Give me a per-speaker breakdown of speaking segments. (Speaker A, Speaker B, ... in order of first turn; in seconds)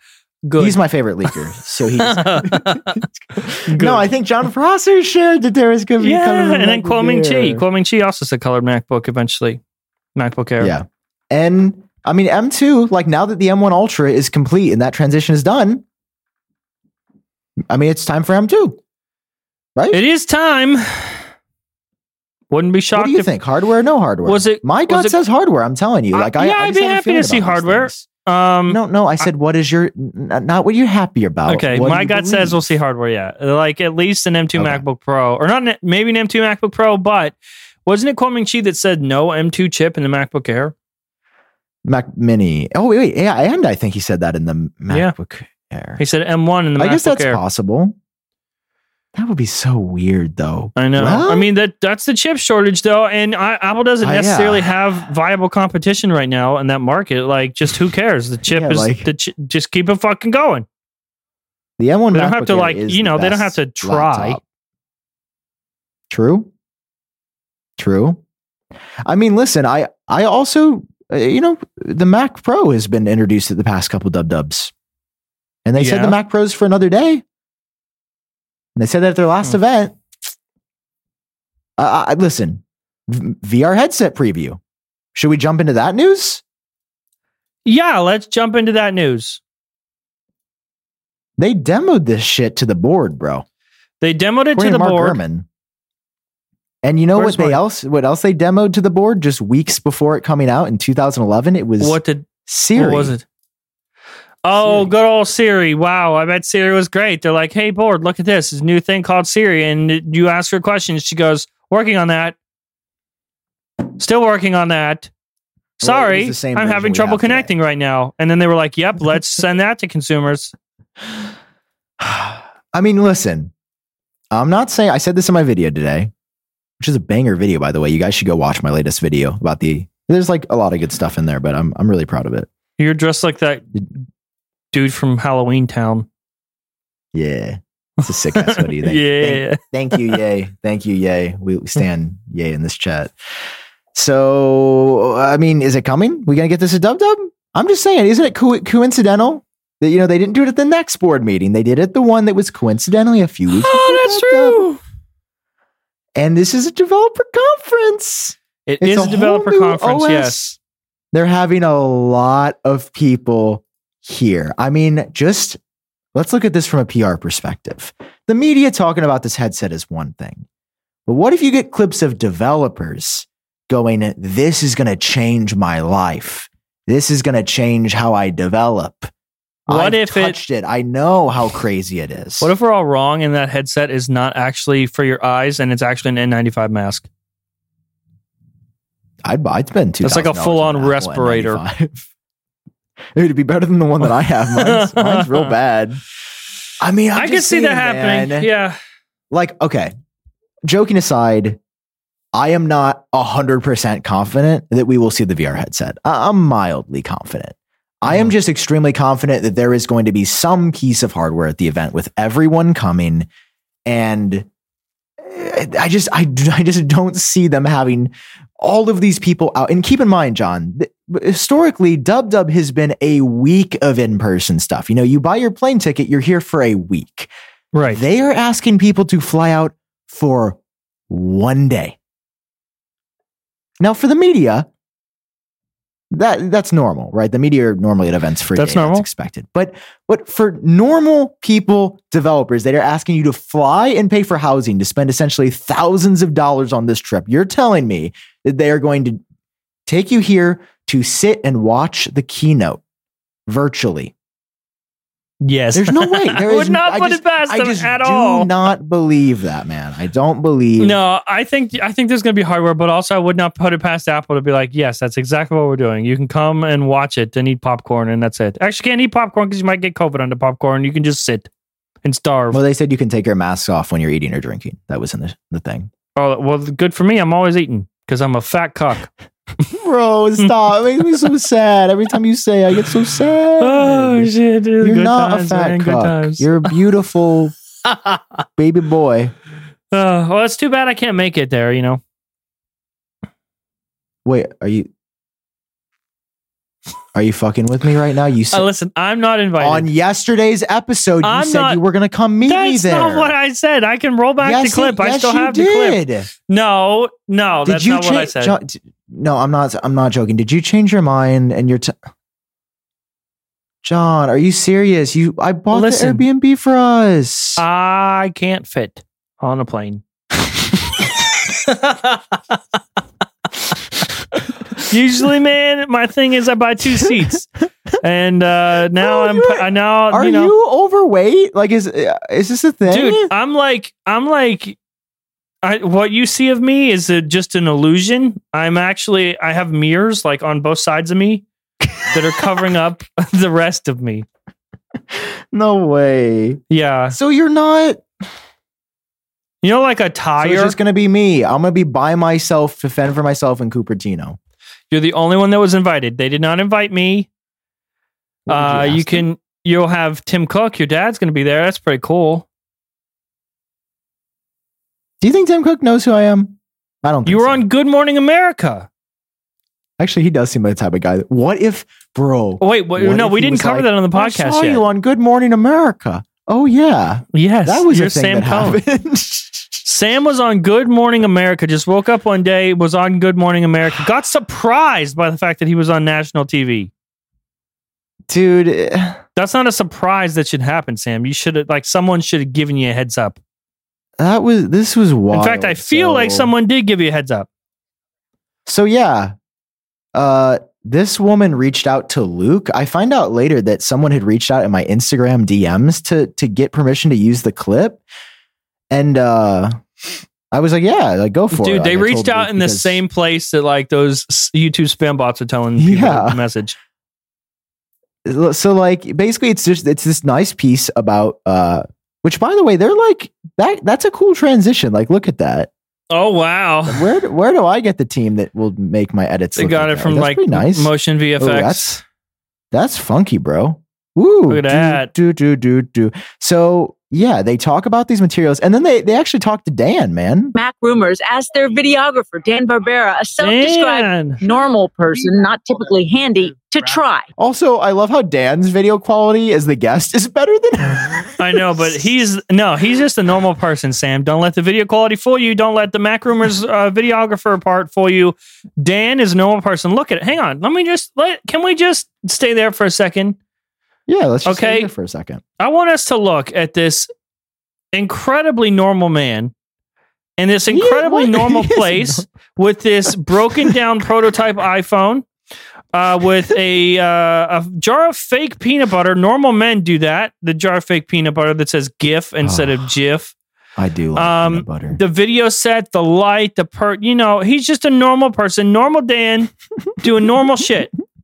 Speaker A: 0.5-1.4, 2.0-3.0, 3.6-4.0, 6.0-9.6, 10.2-10.7, 19.9-21.2, 22.5-23.3, 24.2-25.2, 26.1-28.8, 31.5-40.7, 46.0-47.4, 50.8-60.6, 62.1-64.4, 75.8-76.2, 87.7-89.4, 94.0-95.2, 97.1-97.6, 101.8-103.2, 104.4-112.3, 114.0-115.1, 115.8-120.5, 132.8-133.7, 134.7-136.1, 138.3-140.2, 153.5-154.8, 158.7-160.6, 179.7-180.4, 182.4-187.1, 190.0-191.6, 194.5-195.5, 197.1-198.8, 227.7-228.0, 238.5-239.1, 255.4-258.5, 260.8-271.5, 272.0-272.6, 276.1-279.1, 283.6-286.5, 287.9-288.2, 289.9-292.0, 298.5-299.9, 301.2-301.8, 302.5-308.6, 315.7-316.2, 317.6-320.0, 321.5-322.2, 324.9-327.5, 328.0-330.5, 332.9-334.8, 335.6-341.4, 342.1-344.2, 346.7-347.1, 349.6-350.8, 354.9-357.3, 358.5-362.5, 367.2-368.9, 372.6-374.8, 377.3-378.8, 379.8-386.9, 389.4-393.4, 395.3-397.5, 411.5-416.8, 426.1-427.1, 429.6-432.0, 434.5-435.1, 443.4-444.4, 451.4-463.4, 464.4-464.9, 465.6-467.1, 467.9-469.5, 470.4-475.2, 475.9-483.3, 484.1-490.9
Speaker B: 0.6-7.6, 10.6-15.8, 17.7-18.8, 19.8-20.0, 22.9-28.1, 28.7-32.6, 34.5-34.8, 41.8-46.0, 46.8-48.0, 49.1-51.5, 54.0-54.7, 58.5-59.1, 61.8-64.4, 66.1-66.5, 67.8-68.2, 69.0-74.7, 75.6-77.2, 78.8-80.0, 81.8-84.6, 85.1-86.4, 91.4-93.4, 94.5-95.5, 96.8-103.1, 104.5-104.9, 115.8-117.5, 122.0-123.5, 124.3-126.1, 126.8-132.5, 137.1-143.1, 143.9-154.7, 156.2-160.5, 161.1-165.6, 166.1-170.4, 171.1-179.1, 179.7-182.5, 189.2-192.1, 193.1-196.0, 196.8-198.5, 199.3-199.9, 200.7-201.6, 202.3-213.3, 213.8-214.5, 215.2-227.3, 227.9-232.0, 233.8-234.7, 236.1-249.2, 249.9-252.8, 253.5-254.1, 255.7-261.0, 272.5-275.9, 279.7-287.5, 288.6-289.3, 294.2-294.9, 297.1-298.7, 299.6-303.3, 304.4-306.3, 307.6-311.9, 313.8-317.6, 329.0-333.3, 345.1-348.0, 350.4-354.4, 358.5-359.2, 365.2-367.6, 370.0-379.8, 388.3-389.2, 394.2-396.5, 398.6-399.3, 400.1-408.0, 408.9-409.8, 410.5-413.0, 415.8-416.4, 418.2-425.7, 426.9-431.9, 432.7-440.5, 447.4-451.9, 464.1-465.4, 470.7-472.3, 482.4-482.9, 483.8-485.0
Speaker C: 440.5-447.3